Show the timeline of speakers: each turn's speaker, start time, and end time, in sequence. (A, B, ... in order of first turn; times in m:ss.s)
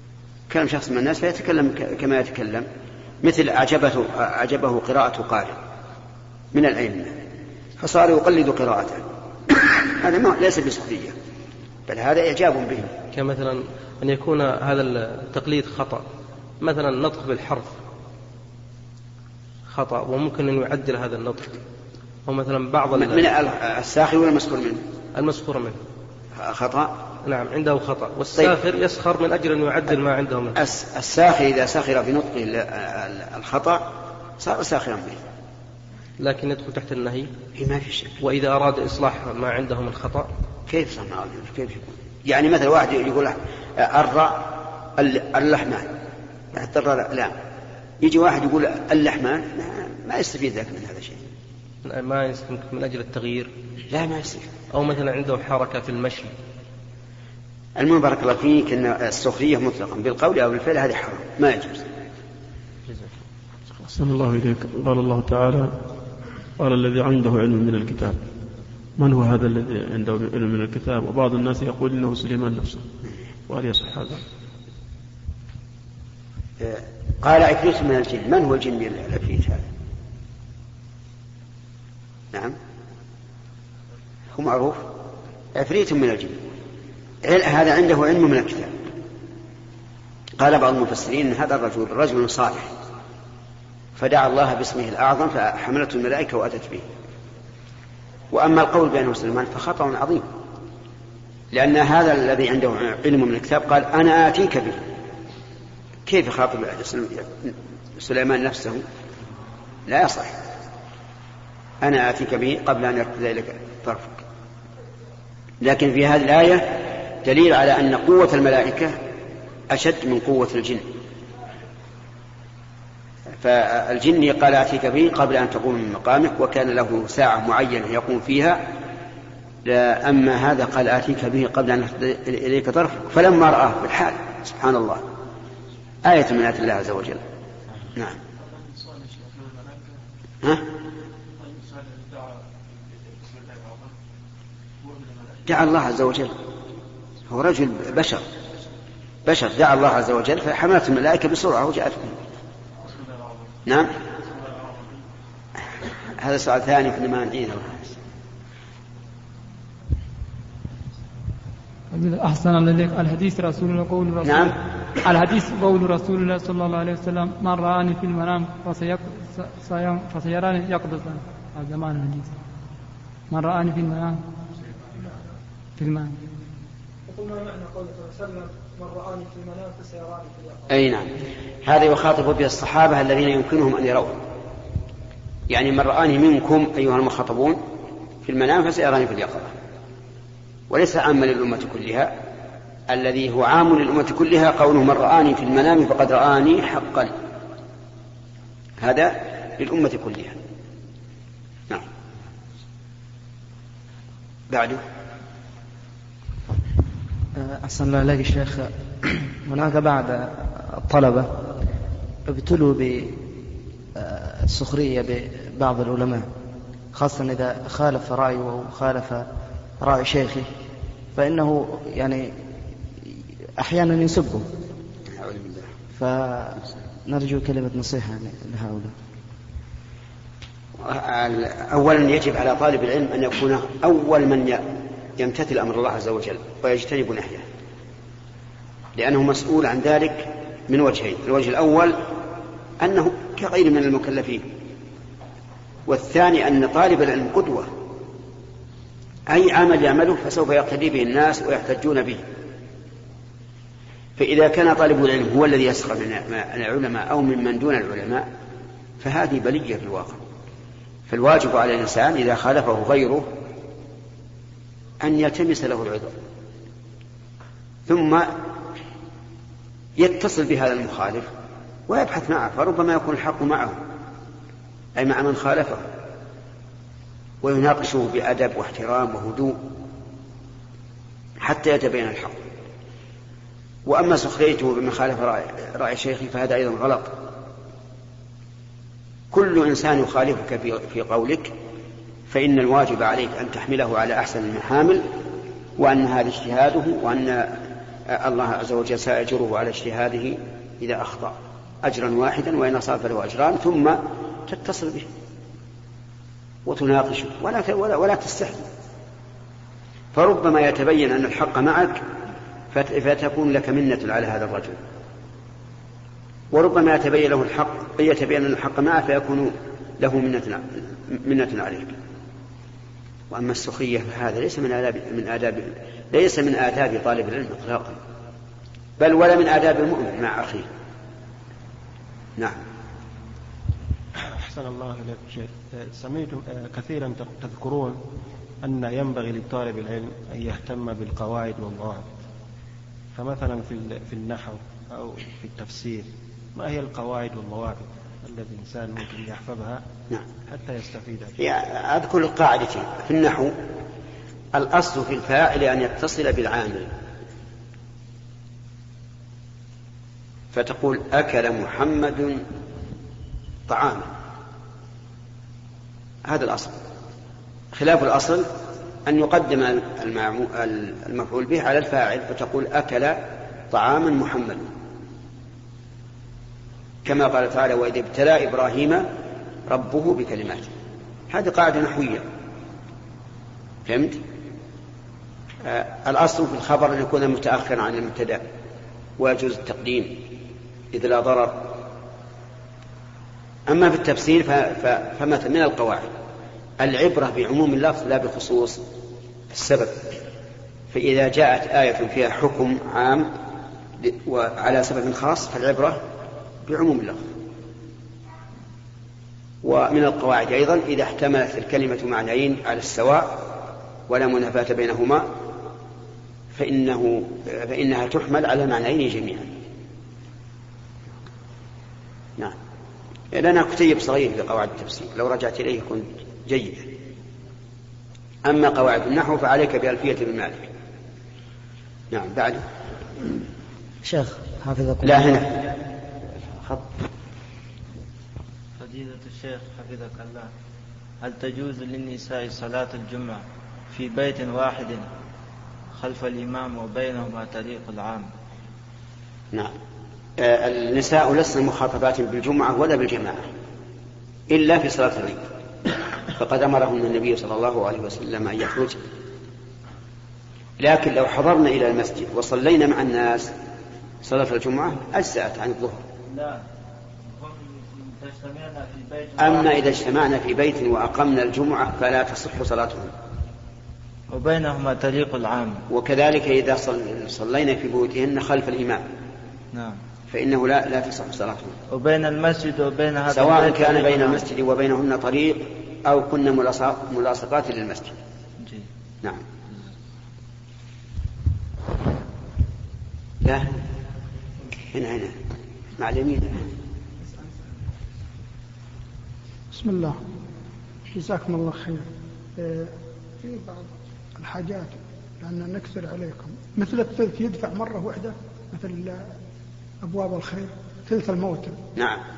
0:00.5-0:02.7 A
0:03.2-0:05.6 A
0:06.5-0:07.2 A
0:07.8-0:11.2 A
0:11.9-0:12.9 A
0:13.1-0:16.0 B
0:16.6-0:17.8 B
0:19.7-0:21.6 B
0:22.3-0:23.3 B
0:23.0-0:24.8 A
0:25.2-0:25.8 B
0:26.4-0:27.0 A
0:27.2-0:30.6 B
0:30.6-0:33.9 A
0:34.4-0:35.2 A
0:36.2-0:37.3 B
0:37.6-0:38.2 A
0:38.2-0:40.3 B
0:40.7-0:45.9 A
0:46.5-0:47.3 A
0:48.0-0:51.2 A
0:51.8-0:53.5 B
0:53.9-0:54.5 A
0:54.7-0:56.3 B
0:57.8-1:01.9 A
1:03.8-1:05.8 C
1:06.6-1:08.2 C
1:09.0-1:12.9 C
1:13.5-1:14.2 C
1:16.6-1:19.7 A
1:22.3-1:22.6 A
1:24.3-1:24.9 A
1:25.5-1:26.4 A
1:27.2-1:28.7 A
1:30.4-1:32.7 A
1:34.0-1:36.9 A
1:38.3-1:40.3 A
1:41.5-1:44.8 A
1:46.1-1:48.8 A
1:49.8-1:50.4 A
1:51.8-1:54.2 A
1:55.6-1:59.0 A
1:59.7-2:00.9 A
2:03.4-2:08.7 A
2:09.6-2:15.0 A
2:16.0-2:17.2 A
2:18.0-2:18.2 A
2:20.4-2:20.7 A
2:25.5-2:26.3 A
2:27.3-2:28.3 A
2:29.2-2:32.2 A
2:33.7-2:33.9 A
2:36.2-2:38.0 A
2:41.9-2:52.4 D
2:44.2-2:44.5 A
2:53.3-2:54.2 D
2:54.9-2:55.3 E
2:55.8-2:56.2 D
2:57.1-3:00.8 E
3:00.7-3:01.1 A
3:01.6-3:04.2 A
3:05.5-3:07.6 A
3:08.2-3:09.5 A
3:10.7-3:12.2 A
3:12.9-3:17.1 A
3:18.8-3:20.4 A
3:24.5-3:24.8 A
3:27.4-3:31.3 F
3:32.3-3:33.2 F
3:34.0-3:36.3 F
3:36.9-3:39.3 F
3:39.8-3:40.5 F
3:41.2-3:42.3 F
3:43.6-3:44.5 F
3:45.1-3:45.7 A
3:46.0-3:48.9 F
3:50.8-3:54.7 A
3:55.2-3:57.4 A
3:59.0-4:02.0 A
4:02.8-4:04.5 A
4:05.9-4:07.7 A
4:09.3-4:12.2 A
4:14.2-4:18.3 A
4:19.0-4:20.2 A
4:21.1-4:23.3 A
4:25.0-4:26.1 A
4:27.9-4:28.4 A
4:30.0-4:31.3 A
4:31.9-4:33.8 A
4:35.0-4:35.8 A
4:37.4-4:39.6 A
4:41.4-4:42.4 A
4:43.9-4:47.2 A
4:49.3-4:51.5 A
4:52.3-4:55.1 A
4:55.8-5:05.1 A
5:06.6-5:08.7 A
5:10.1-5:12.0 A
5:12.7-5:14.8 A
5:16.5-5:22.0 A
5:23.3-5:28.0 A
5:29.0-5:30.7 A
5:34.2-5:38.0 G
5:38.6-5:42.1 G
5:43.1-5:49.8 G
5:50.5-5:51.4 G
5:51.4-5:53.5 A
5:54.5-5:56.9 A
6:00.5-6:02.4 A
6:03.7-6:04.1 A
6:06.2-6:06.8 A
6:07.7-6:08.5 A
6:09.0-6:14.7 A
6:17.0-6:19.1 A
6:19.7-6:20.7 A
6:21.3-6:22.2 A
6:23.9-6:24.2 A
6:25.6-6:28.4 A
6:29.2-6:30.3 A
6:30.9-6:31.8 A
6:33.7-6:36.1 A
6:36.8-6:38.8 A
6:39.5-6:40.2 A
6:40.9-6:43.3 A
6:44.0-6:46.0 A
6:46.6-6:47.3 A
6:49.6-6:53.5 A
6:54.1-6:55.3 A
6:56.5-6:59.6 A
7:03.3-7:06.9 A
7:08.4-7:10.7 A
7:12.1-7:12.6 A
7:14.0-7:15.5 F
7:15.0-7:15.5 A
7:18.8-7:20.5 H
7:21.2-7:25.1 H
7:26.0-7:28.3 H
7:30.4-7:33.5 A
7:34.5-7:35.5 A
7:36.3-7:39.0 A
7:40.8-7:43.5 A
7:44.2-7:46.0 A
7:46.3-7:46.6 H
7:47.3-7:49.8 H
7:49.4-7:53.1 A
7:54.3-7:55.8 H
7:55.9-7:59.0 A
7:59.7-8:00.0 H
8:00.3-8:01.8 A
8:01.9-8:04.4 H
8:03.3-8:08.2 A
8:13.4-8:13.8 A
8:14.9-8:15.4 A
8:16.0-8:16.7 A
8:19.7-8:20.2 E
8:21.1-8:29.3 E
8:30.0-8:31.8 E
8:32.0-8:32.2 A